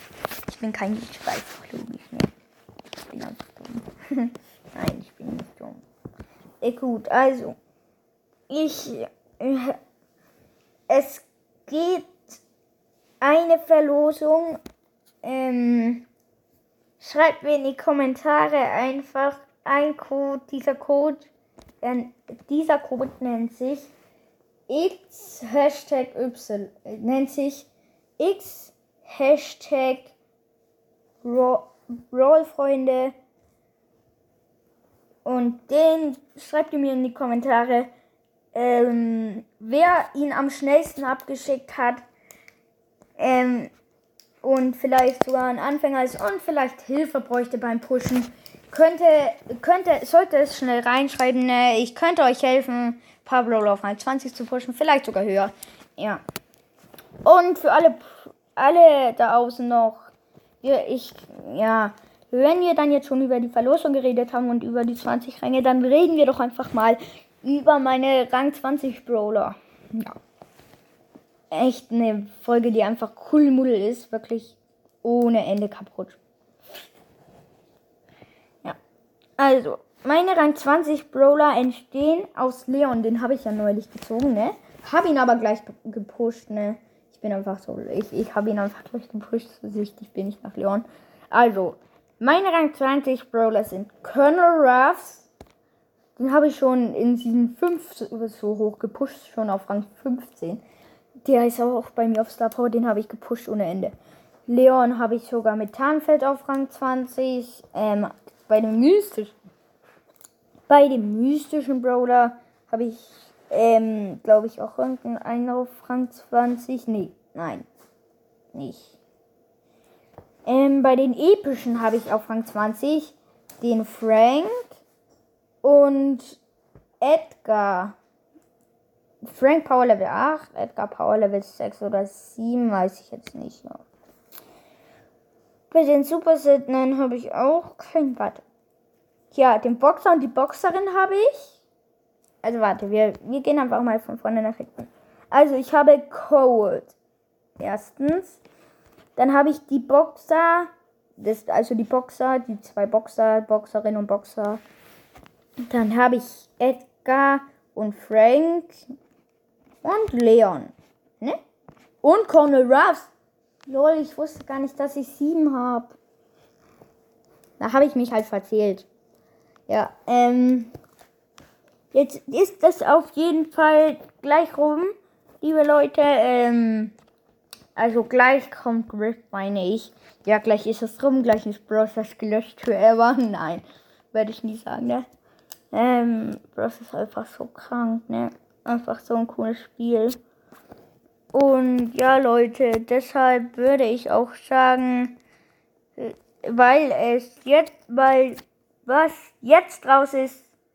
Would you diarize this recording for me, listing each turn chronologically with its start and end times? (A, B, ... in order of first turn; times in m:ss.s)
0:00.5-0:02.3 A
0:03.1-0:05.8 A
0:06.6-0:07.6 A
0:08.5-0:09.8 A
0:10.9-0:12.4 A
0:13.2-0:14.6 A
0:15.2-0:16.0 A
0:17.0-0:21.3 A
0:21.8-0:23.9 A
0:24.7-0:27.7 A
0:28.2-0:30.1 A
0:31.2-0:33.1 A
0:35.2-0:37.9 A
0:38.5-0:42.0 A
0:43.2-0:43.7 A
0:44.4-0:56.2 A
0:57.2-1:00.1 A
1:00.6-1:10.2 A
1:11.5-1:16.2 A
1:19.4-1:35.3 A
1:36.2-1:40.6 A
1:41.2-1:43.9 A
1:44.5-1:49.3 A
1:50.7-1:57.7 A
1:58.5-1:58.9 A
2:00.5-2:04.8 A
2:05.6-2:06.4 A
2:07.0-2:08.0 A
2:09.2-2:13.8 A
2:15.7-2:18.4 A
2:19.3-2:21.5 A
2:22.4-2:26.9 A
2:27.6-2:28.4 A
2:29.2-2:34.6 A
2:35.6-2:38.8 A
2:39.8-2:41.4 A
2:42.0-2:43.1 A
2:43.7-2:46.0 A
2:47.6-2:48.9 A
2:49.7-2:50.7 A
2:51.9-2:56.9 A
2:57.8-3:05.1 A
3:05.7-3:10.2 A
3:11.3-3:15.2 A
3:16.0-3:20.5 A